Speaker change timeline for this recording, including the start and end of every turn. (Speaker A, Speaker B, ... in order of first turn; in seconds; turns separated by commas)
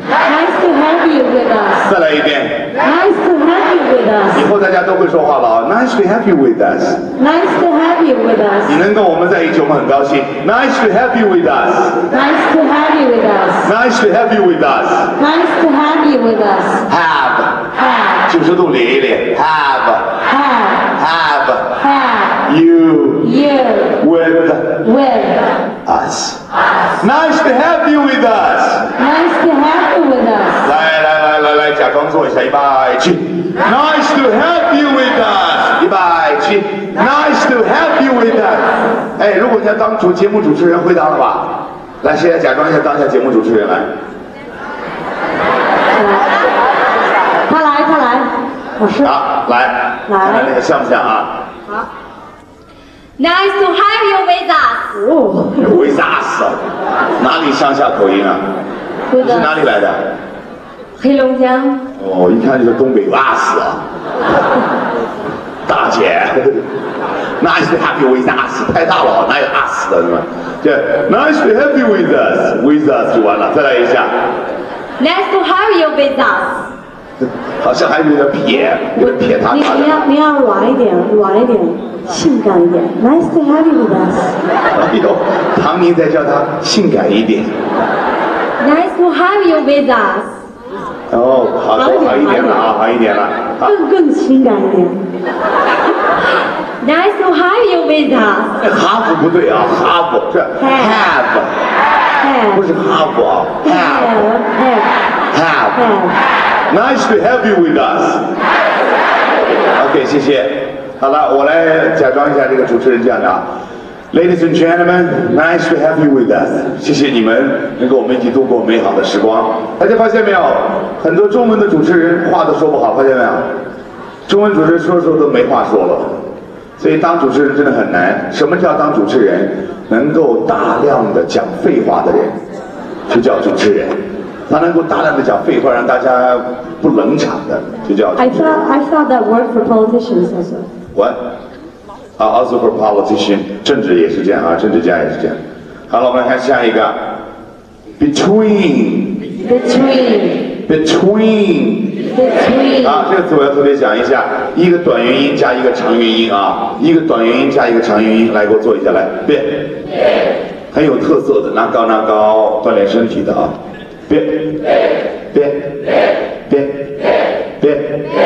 Speaker A: 0.2-1.9, Speaker B: 1.8-2.7, Speaker A: 2.8-4.5, Speaker B: 4.3-7.0, Speaker A: 7.2-8.8, Speaker B: 8.7-12.0, Speaker A: 12.1-13.7, Speaker B: 13.6-15.1, Speaker A: 15.2-16.9, Speaker B: 16.9-17.6, Speaker A: 17.8-18.3, Speaker B: 18.3-20.2, Speaker A: 20.3-20.9, Speaker B: 21.0-21.8, Speaker A: 21.8-22.4, Speaker B: 22.5-23.3, Speaker A: 23.2-24.0, Speaker B: 24.0-24.8, Speaker A: 24.8-25.5, Speaker B: 25.9-26.4, Speaker B: 27.0-28.9, Speaker A: 29.0-30.7, Speaker B: 30.6-43.9, Speaker A: 45.9-46.5, Speaker A: 47.5-49.1, Speaker B: 49.0-51.4, Speaker A: 50.1-50.5, Speaker C: 53.2-54.9, Speaker A: 55.0-56.0, Speaker B: 55.6-56.6, Speaker B: 57.2-58.5, Speaker A: 59.1-59.5, Speaker B: 59.2-60.1, Speaker A: 61.0-61.7, Speaker C: 61.1-61.5, Speaker B: 62.0-63.8, Speaker B: 65.7-66.6, Speaker B: 67.4-74.2, Speaker C: 75.0-76.6, Speaker B: 77.6-79.9, Speaker A: 79.0-84.4, Speaker B: 84.7-87.5, Speaker C: 88.6-90.3, Speaker B: 91.1-93.7, Speaker A: 91.8-92.7, Speaker A: 93.6-95.0, Speaker C: 96.8-98.5, Speaker B: 98.6-101.6, Speaker A: 100.6-101.0, Speaker A: 102.2-102.7, Speaker B: 102.5-104.3, Speaker A: 103.6-104.9, Speaker B: 105.3-105.9, Speaker A: 105.8-106.1, Speaker B: 106.7-108.3, Speaker B: 109.8-113.4, Speaker B: 114.1-123.5, Speaker B: 124.3-126.2, Speaker B: 126.8-132.4, Speaker B: 133.1-138.7, Speaker A: 138.2-140.7, Speaker B: 142.2-147.0, Speaker B: 148.0-149.2, Speaker A: 149.4-150.5, Speaker B: 150.7-151.9, Speaker A: 152.1-153.1, Speaker B: 152.8-159.8, Speaker B: 160.7-163.6, Speaker B: 164.1-164.6, Speaker B: 165.3-165.8, Speaker B: 166.5-166.9, Speaker B: 167.6-168.0